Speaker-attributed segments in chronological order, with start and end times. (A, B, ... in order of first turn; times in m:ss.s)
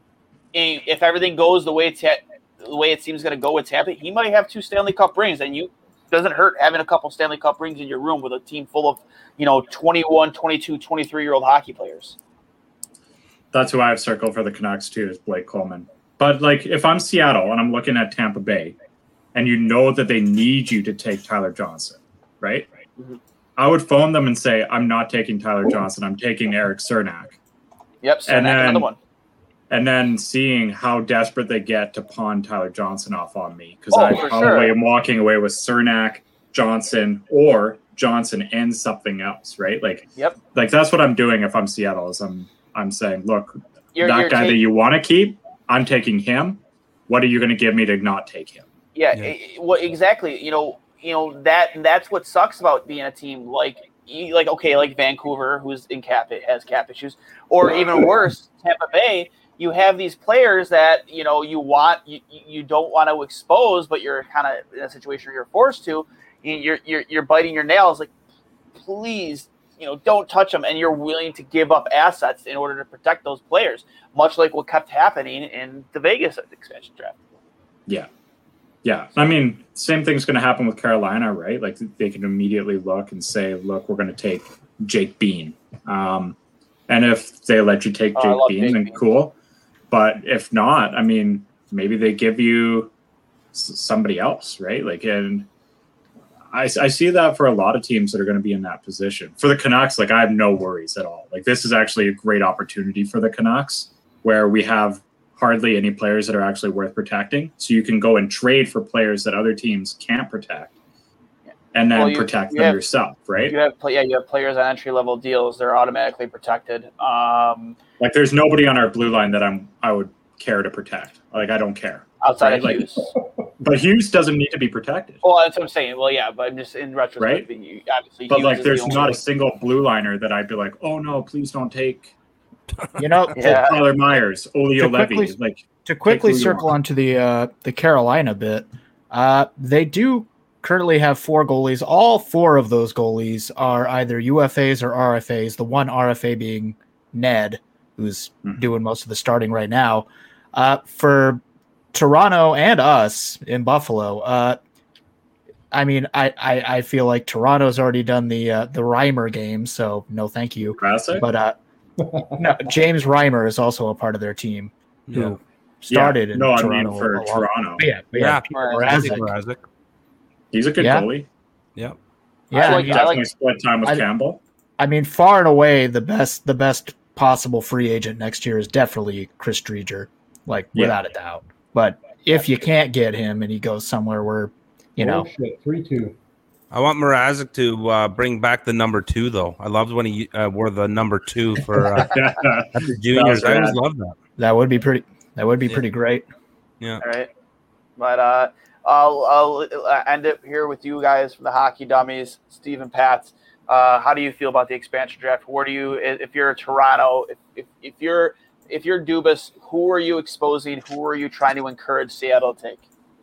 0:00.5-0:12.2 A
0:13.5-0:18.8 B
0:19.3-0:22.7 B
0:23.6-0:27.4 B
0:28.0-0:29.0 A
0:28.3-0:28.9 B
0:29.7-0:48.7 B
0:33.9-0:34.7 A
0:43.9-0:44.6 A
0:49.0-1:08.1 A
1:08.8-1:17.2 A
1:18.8-1:26.4 B
1:26.9-1:29.3 B
1:28.2-1:29.0 A
1:29.9-1:32.9 B
1:33.5-1:35.5 B
1:36.5-1:50.7 B
1:51.7-1:53.6 B
1:51.9-1:52.8 A
1:53.5-1:57.8 A
1:58.0-2:02.8 B
2:02.2-2:03.1 A
2:03.1-2:03.5 C
2:03.6-2:05.2 B
2:05.2-2:09.2 A
2:07.2-2:07.5 B
2:08.3-2:12.1 B
2:12.8-2:13.0 D
2:13.0-2:13.7 E
2:13.4-2:13.8 A
2:13.4-2:16.7 B
2:14.8-2:31.4 E
2:31.9-2:34.6 E
2:35.7-2:41.6 E
2:40.8-2:41.3 B
2:42.0-2:42.4 C
2:42.4-2:49.3 E
2:45.1-2:45.4 D
2:45.9-2:47.8 B
2:48.1-2:49.6 D
2:48.5-2:48.9 A
2:50.5-2:51.3 B
2:50.8-2:51.1 E
2:52.5-2:53.2 E
2:52.5-2:53.2 A
2:52.6-2:54.4 B
2:54.8-3:05.3 E
3:05.0-3:06.2 C
3:06.7-3:12.2 D
3:11.8-3:13.8 B
3:12.8-3:14.2 D
3:14.4-3:16.2 E
3:17.0-3:17.3 A
3:18.0-3:32.8 A